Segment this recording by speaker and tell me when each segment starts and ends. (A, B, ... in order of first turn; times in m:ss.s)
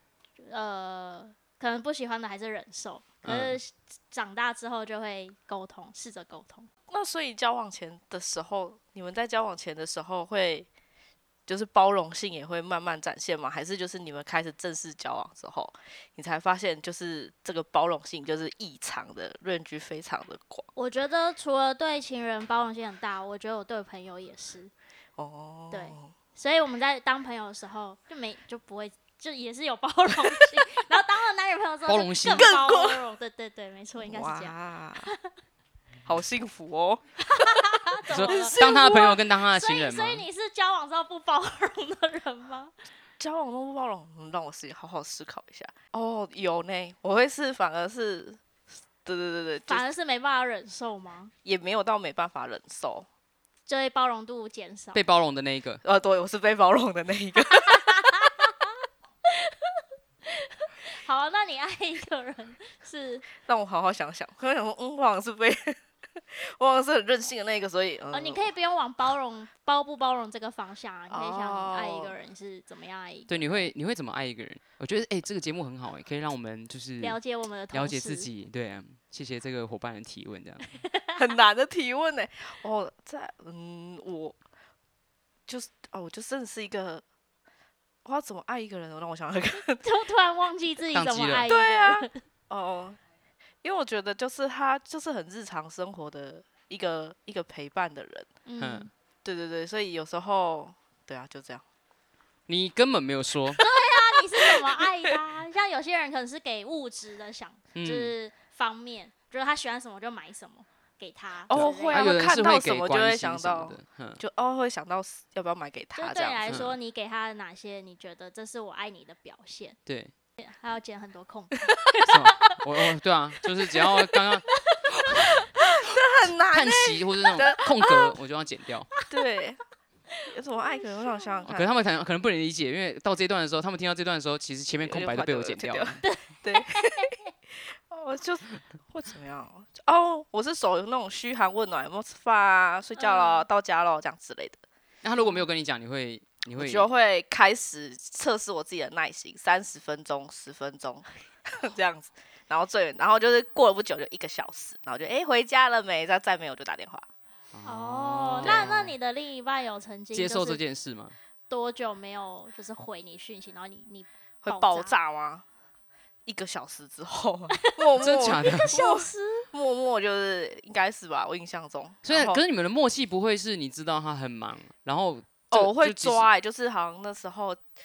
0:00.4-0:06.7 A
0:03.2-0:03.6 B
0:06.9-0:10.7 C
0:11.5-0:20.7 C
0:20.8-0:24.7 A
0:25.2-0:26.1 C
0:25.7-0:35.2 A
0:30.1-0:30.5 C
0:31.9-0:32.5 B
0:32.3-0:33.0 C
0:34.0-0:35.1 C
0:36.0-0:39.1 C
0:37.3-0:42.7 A
0:38.1-0:40.2 B
0:43.2-0:48.4 C
0:49.0-0:49.9 C
0:49.7-0:51.3 A
0:51.4-0:53.1 C
0:53.7-0:55.0 A
0:54.9-0:55.8 B
0:55.8-0:58.3 C
0:57.4-0:58.6 A
0:59.2-1:03.3 A
1:03.4-1:05.8 C
1:06.3-1:08.5 C
1:08.1-1:13.7 A
1:11.1-1:12.1 C
1:13.3-1:17.2 B
1:17.0-1:18.3 A
1:17.7-1:20.6 B
1:20.8-1:21.2 A
1:21.1-1:24.4 C
1:25.5-1:27.0 C
1:28.0-1:29.8 C
1:29.8-1:32.2 A
1:30.9-1:31.5 B
1:31.4-1:33.0 C
1:33.6-1:38.3 C
1:38.4-1:38.9 A
1:38.6-1:38.9 B
1:39.2-1:41.6 C
1:42.5-1:43.6 B
1:43.6-1:45.2 C
1:43.6-1:52.2 A
1:47.7-1:48.1 B
1:51.5-1:56.6 C
1:51.5-1:54.2 B
1:56.0-1:59.8 A
1:56.5-1:56.8 B
1:59.8-2:00.1 B
2:00.4-2:02.6 A
2:02.0-2:04.4 B
2:03.7-2:05.5 A
2:05.1-2:08.1 C
2:05.8-2:08.9 B
2:09.1-2:09.6 C
2:10.3-2:11.7 C
2:11.0-2:11.4 A
2:11.5-2:16.0 B
2:14.8-2:24.6 C
2:16.0-2:17.2 A
2:23.0-2:23.5 A
2:25.0-2:26.9 B
2:26.5-2:37.1 C
2:37.5-2:39.0 B
2:37.6-2:40.6 A
2:38.4-2:38.8 C
2:40.1-2:41.1 B
2:41.5-2:44.9 A
2:44.4-2:45.4 C
2:46.2-2:52.4 C
2:47.6-2:49.4 A
2:48.0-2:48.7 B
2:52.0-2:56.3 B
2:55.5-2:57.6 C